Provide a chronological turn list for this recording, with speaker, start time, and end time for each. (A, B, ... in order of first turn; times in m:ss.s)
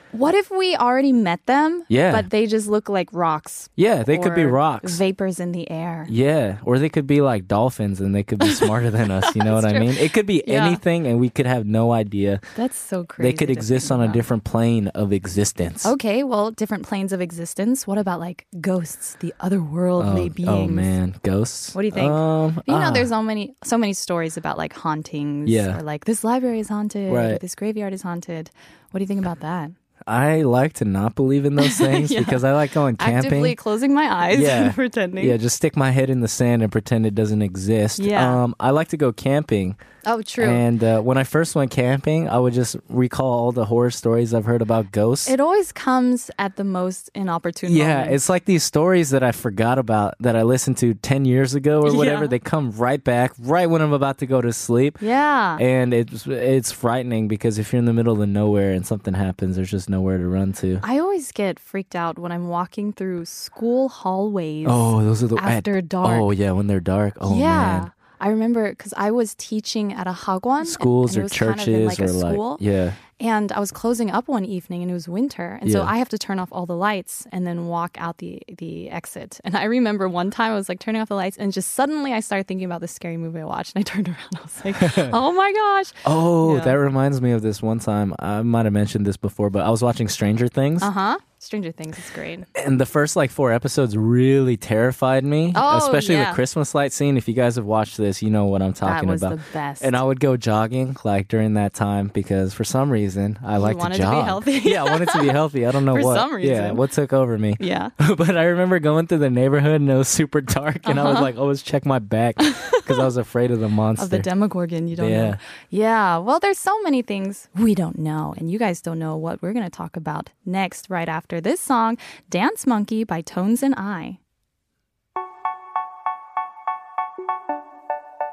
0:00.1-0:06.1 A
0:01.9-0:02.3 B
0:03.8-0:05.0 B
0:06.1-0:12.4 B
0:08.4-0:10.8 A
0:12.6-0:14.2 A
0:13.2-0:15.9 B
0:15.8-0:20.9 A
0:20.0-0:23.1 B
0:21.7-0:29.8 A
0:25.4-0:25.8 B
0:27.1-0:27.4 B
0:30.1-0:33.6 B
0:31.6-0:32.5 A
0:33.0-0:35.4 A
0:34.3-0:39.8 B
0:38.0-0:38.4 A
0:40.0-0:40.6 A
0:40.4-0:45.3 B
0:45.3-0:48.2 A
0:47.7-0:55.0 B
0:51.8-0:52.3 A
0:55.0-0:55.6 A
0:55.6-1:00.8 B
1:00.8-1:06.3 A
1:04.6-1:07.9 B
1:07.2-1:12.6 A
1:10.6-1:13.0 B
1:13.2-1:26.8 A
1:15.7-1:15.9 B
1:24.8-1:25.2 B
1:26.0-1:30.9 B
1:30.8-1:32.5 A
1:32.6-1:54.3 B
1:35.5-1:36.4 A
1:38.8-1:39.9 A
1:43.6-1:45.4 A
1:45.9-1:46.8 A
1:47.6-1:47.9 A
1:50.9-1:51.3 A
1:52.4-1:52.9 A
1:54.0-2:04.2 A
1:55.0-1:55.4 B